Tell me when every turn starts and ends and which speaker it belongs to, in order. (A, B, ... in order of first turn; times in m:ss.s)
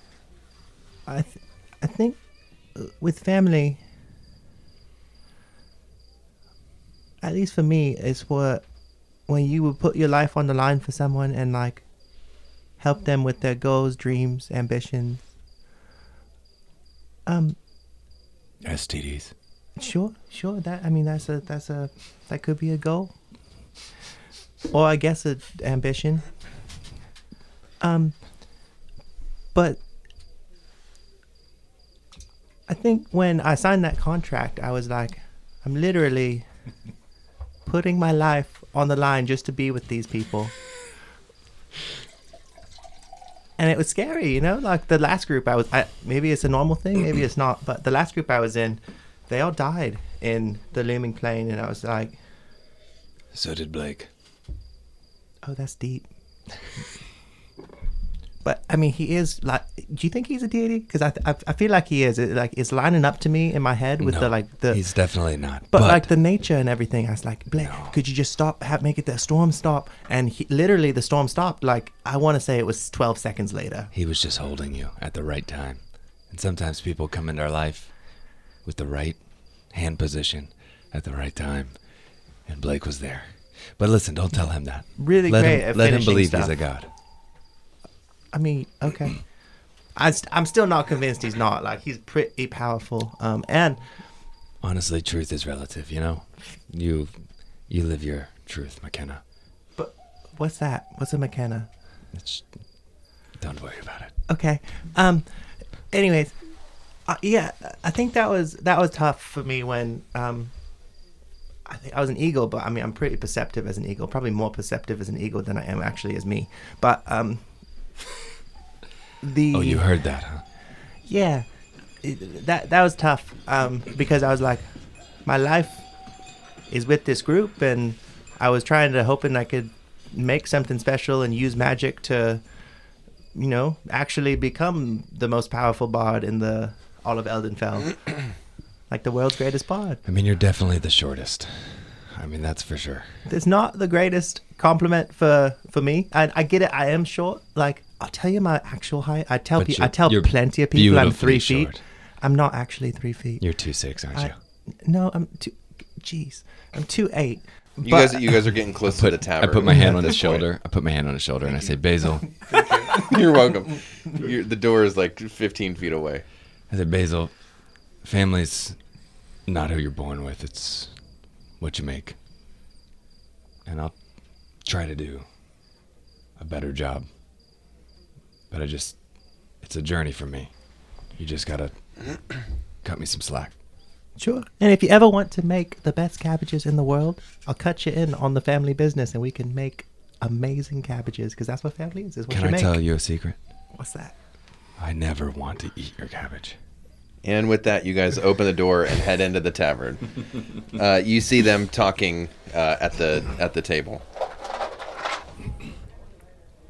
0:01.1-0:02.2 A
0:02.8-0:03.8 A
0:07.2-0:08.6 A
0:09.3-0:11.8 A
0:12.8-0:15.2 A
0:17.3-0:17.6 A
0:18.6-0:19.3 B
0:19.8-0:23.1 A
0:24.7-0:26.2 A
0:27.8-0:28.2 A
0:29.5-0:29.8 A
0:32.7-0:36.4 A
0:37.6-0:40.5 A
0:43.6-0:52.2 A
0:53.3-0:54.1 B
0:55.4-0:56.1 A
0:58.4-1:05.1 A
1:04.0-1:06.1 B
1:05.7-1:13.9 A
1:07.6-1:08.0 B
1:13.9-1:21.8 B
1:22.5-1:26.9 B
1:25.0-1:26.6 A
1:28.3-1:29.3 A
1:30.0-1:33.8 A
1:34.6-1:37.1 B
1:37.7-1:39.2 B
1:39.8-1:41.7 A
1:42.1-1:42.6 B
1:43.4-1:44.1 B
1:44.3-1:45.2 A
1:45.9-1:46.3 A
1:47.1-1:50.5 A
1:51.7-1:57.5 A
1:59.2-1:59.9 A
1:59.5-2:00.4 B
2:01.0-2:01.5 A
2:02.0-2:04.6 A
2:05.2-2:05.8 A
2:06.7-2:12.4 A
2:13.3-2:18.2 A
2:18.9-2:20.0 A
2:20.1-2:23.1 B
2:23.3-2:33.5 A
2:29.6-2:31.8 B
2:33.4-2:34.4 B
2:34.8-2:38.4 A
2:37.8-2:40.5 C
2:38.9-2:42.4 B
2:42.6-2:46.2 C
2:46.7-2:47.4 B
2:48.0-2:48.8 B
2:49.4-2:51.0 B
2:51.6-2:52.2 B
2:53.7-2:54.0 B
2:54.6-2:55.2 B
2:56.4-2:57.1 B
2:58.5-2:59.0 B
2:59.6-3:00.5 B
3:01.2-3:03.5 B
3:04.2-3:12.8 A
3:12.3-3:13.4 B
3:13.8-3:14.1 A
3:14.8-3:16.6 B
3:17.2-3:24.0 C